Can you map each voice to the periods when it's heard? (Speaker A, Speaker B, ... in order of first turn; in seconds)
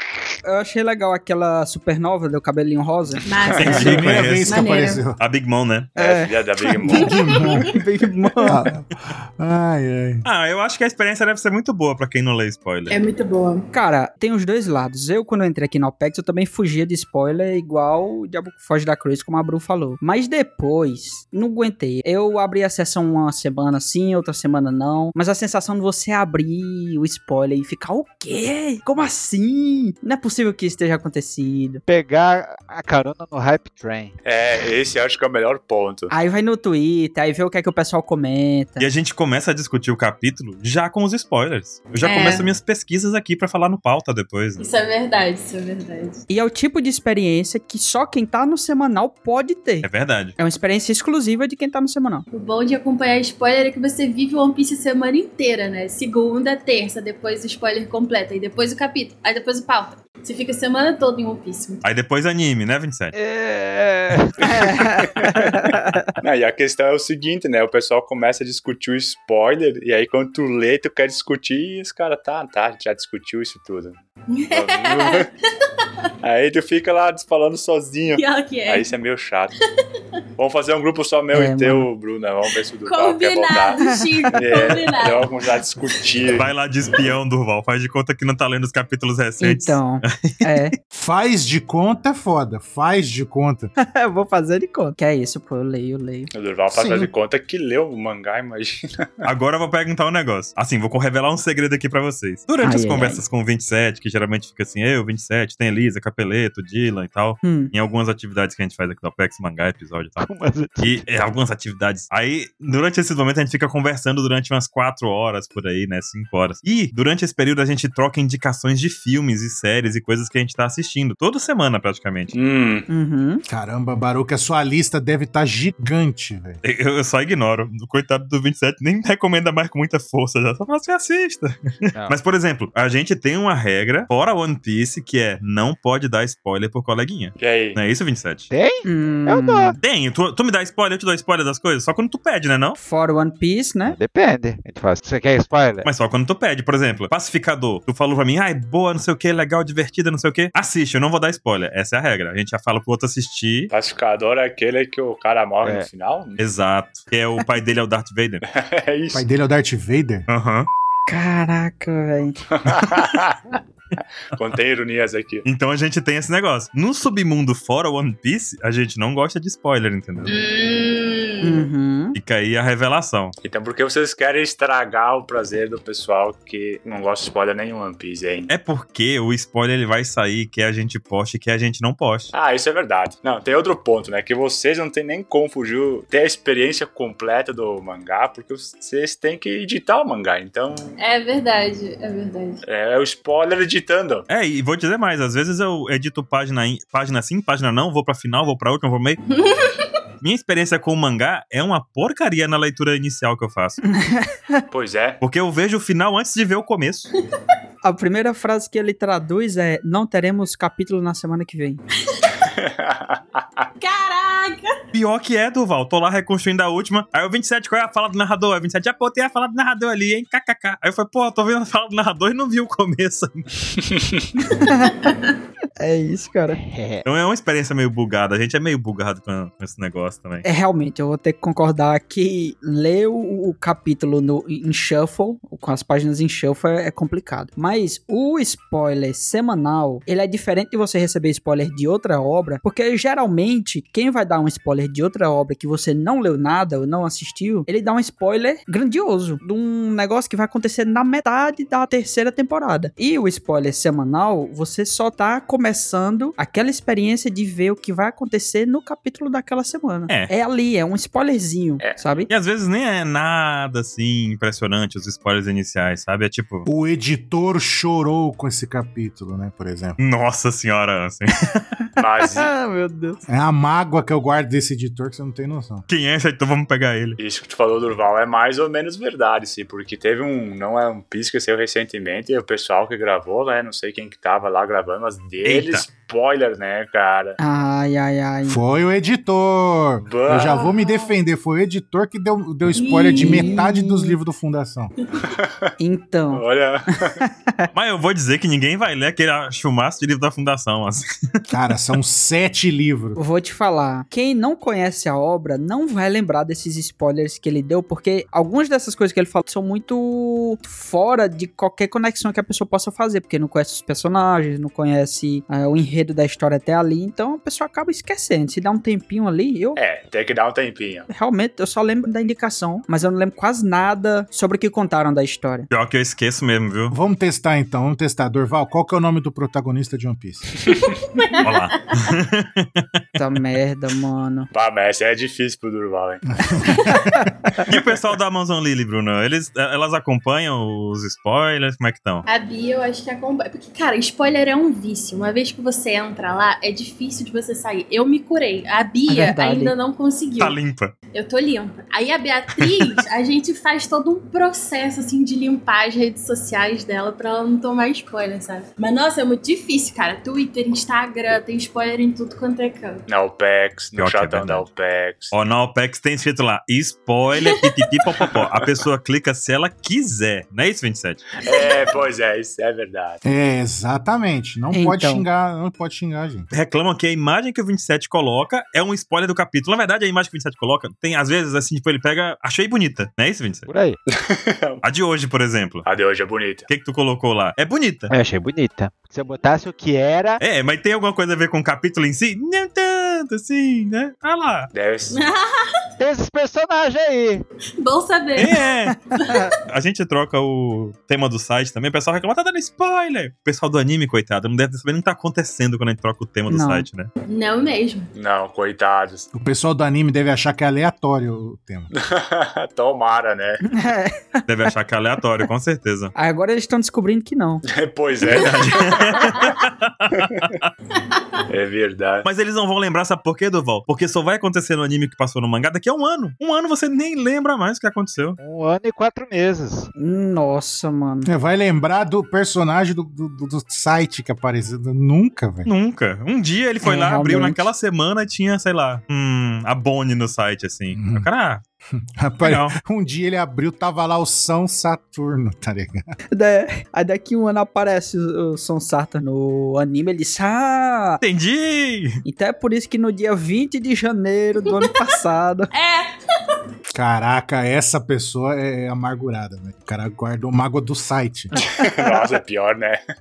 Speaker A: 0.5-3.2, 6.0-6.3, 7.7-8.7, 13.7-31.8, 36.1-38.9, 46.3-52.2, 64.4-66.1, 81.3-81.9, 83.8-84.3, 89.4-90.7, 93.8-96.3, 102.6-103.2, 107.4-107.7, 122.9-123.4, 138.8-139.8, 142.8-144.0, 161.1-162.4, 171.4-172.2, 203.9-204.6, 207.8-211.8, 224.6-224.9, 225.8-226.6, 230.4-262.3, 272.3-273.2, 287.4-288.6, 293.1-294.1, 295.8-296.4, 297.2-297.7, 303.2-319.8, 321.1-325.7, 333.2-334.5, 349.1-349.7, 374.7-375.3, 399.1-399.5, 406.5-406.9, 413.6-414.4, 416.1-417.6, 430.0-431.3, 436.8-437.7, 446.3-451.2, 452.2-455.7
Speaker B: 3.2-5.0, 7.1-7.6, 12.9-13.7, 42.0-42.5, 44.6-46.2, 52.3-61.8, 74.3-75.3, 78.2-78.9, 82.8-85.3, 170.3-171.7, 191.0-192.6, 199.3-199.9, 213.8-214.8, 290.4-291.1, 292.7-293.6, 330.8-331.6, 342.3-350.6, 351.1-363.0, 395.1-395.8, 397.8-398.6, 399.2-399.5, 407.3-408.1, 455.7-456.1
Speaker C: 3.5-4.1, 6.0-7.4, 34.2-36.1, 66.2-74.0, 74.5-75.3, 76.2-79.5, 80.4-83.7, 84.3-86.5, 96.3-99.3, 122.3-122.9, 137.4-137.8, 153.7-156.4, 158.5-159.2, 162.5-163.4, 164.3-165.4, 173.4-178.5, 182.3-190.9, 192.7-194.3, 204.7-205.2, 212.4-213.7, 272.0-272.5, 277.2-287.4, 290.0-290.6, 295.2-295.7, 296.3-297.2, 319.8-321.1, 334.5-336.2, 363.1-365.3, 368.2-368.5, 371.4-373.2, 384.1-384.8, 385.9-386.7, 394.7-395.2, 408.1-409.3, 411.9-413.6, 417.7-419.5, 421.5-422.3, 461.7-463.0
Speaker D: 3.6-4.6, 5.2-5.9, 10.2-13.0, 38.8-44.7, 49.8-50.4, 61.8-63.2, 86.4-90.6, 99.2-110.2, 110.8-122.4, 126.6-138.5, 139.8-142.8, 145.8-153.7, 156.4-158.4, 160.3-160.7, 165.4-170.3, 172.2-173.3, 178.5-182.3, 194.3-199.2, 200.2-203.8, 205.2-207.1, 214.9-223.6, 227.1-230.4, 262.3-266.7, 270.0-271.6, 275.9-277.2, 285.4-285.9, 297.7-301.0, 325.7-326.9, 331.4-332.9, 337.7-342.3, 350.4-350.9, 352.6-352.9, 364.0-364.7, 365.3-371.2, 376.5-383.7, 384.8-385.9, 386.7-388.1, 390.4-394.7, 398.4-399.0, 399.7-407.1, 414.5-416.1, 418.3-420.7, 422.2-428.4, 435.6-441.6, 442.4-442.8, 451.2-452.2
Speaker E: 3.6-5.2, 6.8-7.8, 8.4-10.2, 90.9-93.7, 96.7-97.1, 123.5-126.6, 159.1-160.3, 266.7-270.0, 273.3-275.9, 288.5-294.9, 301.5-303.2, 326.9-330.5, 336.4-337.3, 373.2-376.5, 409.3-411.9, 431.3-435.7, 440.9-441.3, 441.9-446.1, 456.9-461.5
Speaker F: 31.9-34.2, 63.1-64.4, 110.2-111.1, 138.5-139.7, 143.9-145.9, 155.6-155.9, 226.5-227.1, 383.7-384.0, 388.1-390.4, 396.0-397.4, 428.4-429.9